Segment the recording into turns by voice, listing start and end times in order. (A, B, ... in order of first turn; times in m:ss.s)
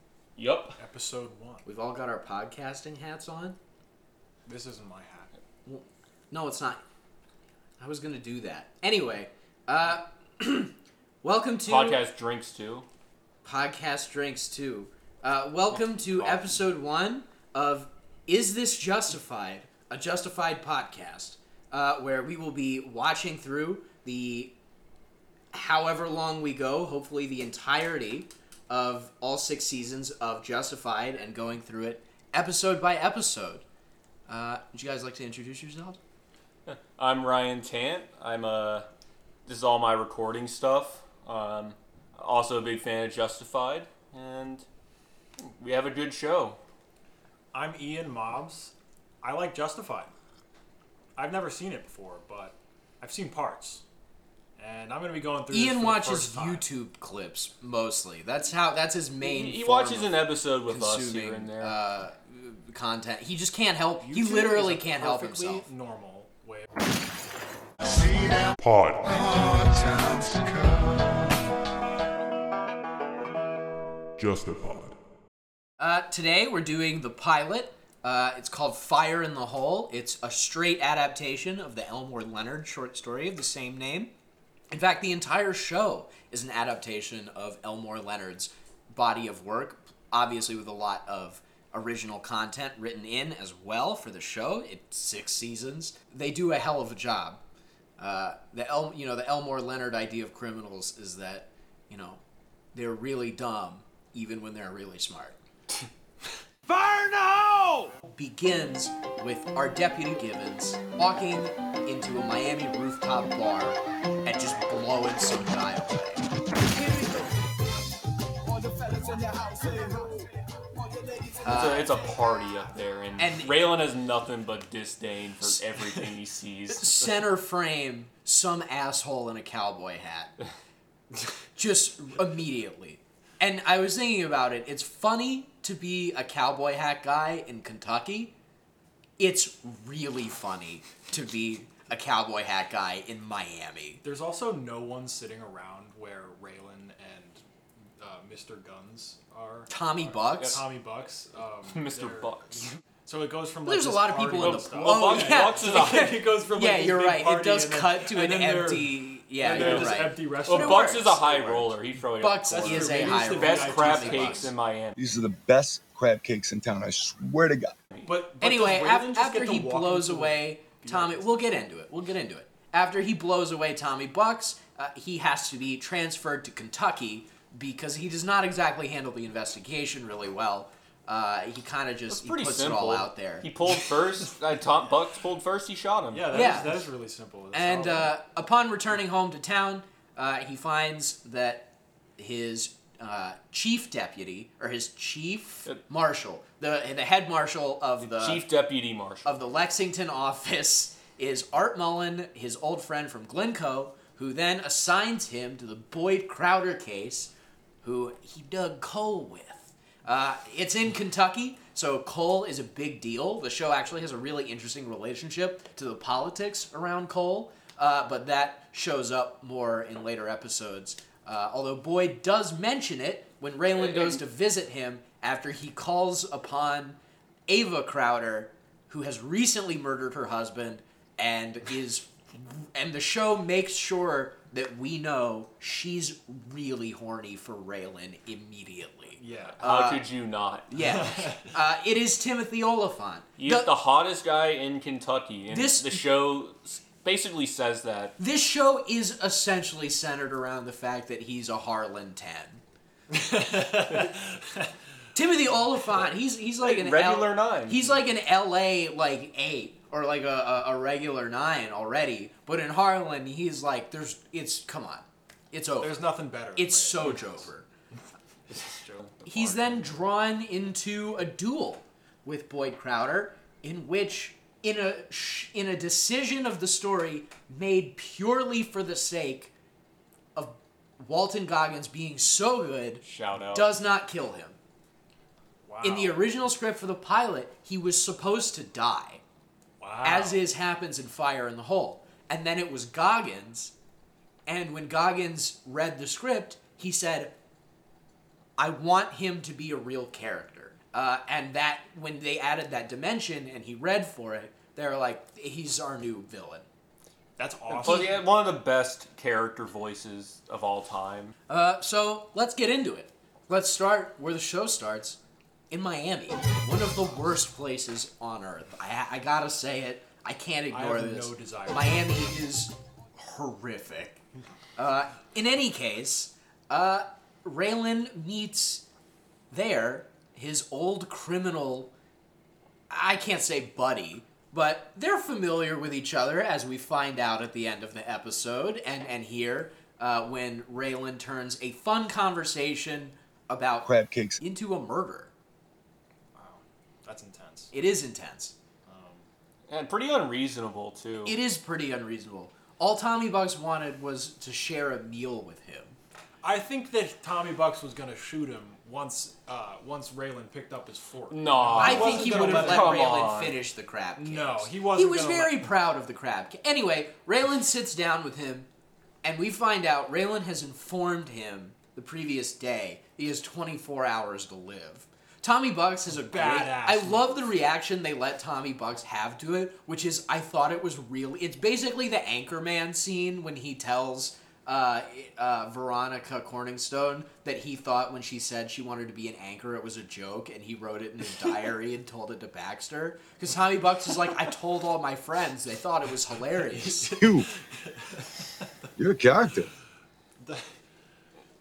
0:00.4-0:00.8 A
0:00.8-0:01.6 B
0:01.6-0:03.6 C
0:04.5-0:05.3 B
0:05.7-0:06.8 C
0:07.8-0:12.0 C
0:11.7-0:12.9 A
0:13.4-0:24.5 C
0:16.0-0:16.6 A
0:25.5-0:33.6 C
0:34.3-0:36.0 C
0:36.7-0:38.9 A
0:39.5-0:44.7 A
0:45.4-0:46.6 A
0:47.5-0:50.1 B
0:51.2-0:53.8 B
0:54.6-0:56.6 B
0:55.5-1:05.7 C
0:59.2-1:01.8 A
1:04.0-1:06.7 B
1:07.9-1:11.4 D
1:14.2-1:15.0 D
1:15.8-1:24.1 C
1:24.7-1:37.4 C
1:38.0-1:42.2 C
1:42.7-1:45.4 C
1:46.7-1:47.9 B
1:48.1-1:56.2 C
1:58.7-1:59.8 E
2:01.4-2:01.9 C
2:01.5-2:07.1 A
2:03.2-2:03.7 C
2:06.7-2:10.3 C
2:11.6-2:18.3 C
2:19.2-2:24.0 C
2:24.0-2:27.4 B
2:28.0-2:41.0 B
2:29.7-2:30.6 C
2:31.7-2:32.7 A
2:33.6-2:44.5 C
2:34.4-2:36.2 A
2:39.5-2:45.0 A
2:42.4-2:44.5 B
2:45.0-2:47.8 E
2:48.0-2:51.4 B
2:48.4-3:03.5 C
3:02.1-3:06.6 A
3:06.1-3:08.1 B
3:06.3-3:06.8 C
3:07.5-3:18.5 C
3:18.1-3:19.3 A
3:19.2-3:27.3 C
3:27.8-4:00.1 C
3:43.8-3:44.2 A
3:59.2-3:59.6 B
3:59.6-4:00.7 A
4:00.7-4:03.7 C
4:00.8-4:01.5 B
4:03.4-4:08.2 A
4:05.5-4:06.0 C
4:08.2-4:12.6 C
4:13.1-4:14.4 B
4:15.2-4:26.0 C
4:16.6-4:17.9 A
4:25.8-4:27.5 B
4:26.6-4:27.7 C
4:28.5-4:30.0 B
4:29.3-4:39.5 C
4:40.4-4:44.6 C
4:43.0-4:43.7 A
4:45.6-4:46.2 B
4:45.8-4:49.2 C
4:49.8-4:50.4 B
4:50.0-4:53.7 C
4:54.5-4:57.3 C
4:58.6-5:06.7 C
5:07.4-5:08.2 B
5:07.7-5:08.2 C
5:07.8-5:11.3 A
5:11.5-5:15.2 C
5:15.7-5:24.2 C
5:20.7-5:22.2 B
5:24.8-5:28.8 C
5:29.5-5:31.9 C
5:32.9-5:45.3 C
5:43.8-5:44.4 E
5:46.4-5:47.7 B
5:47.7-5:48.6 C
5:48.9-5:49.3 B
5:49.7-5:51.4 A
5:51.3-5:56.0 C
5:56.4-6:03.1 B
6:01.3-6:03.6 A
6:01.8-6:08.7 C
6:04.2-6:05.7 B
6:09.2-6:37.2 C
6:16.1-6:17.3 B
6:36.7-6:37.4 B
6:37.2-6:37.5 E
6:39.0-6:39.7 E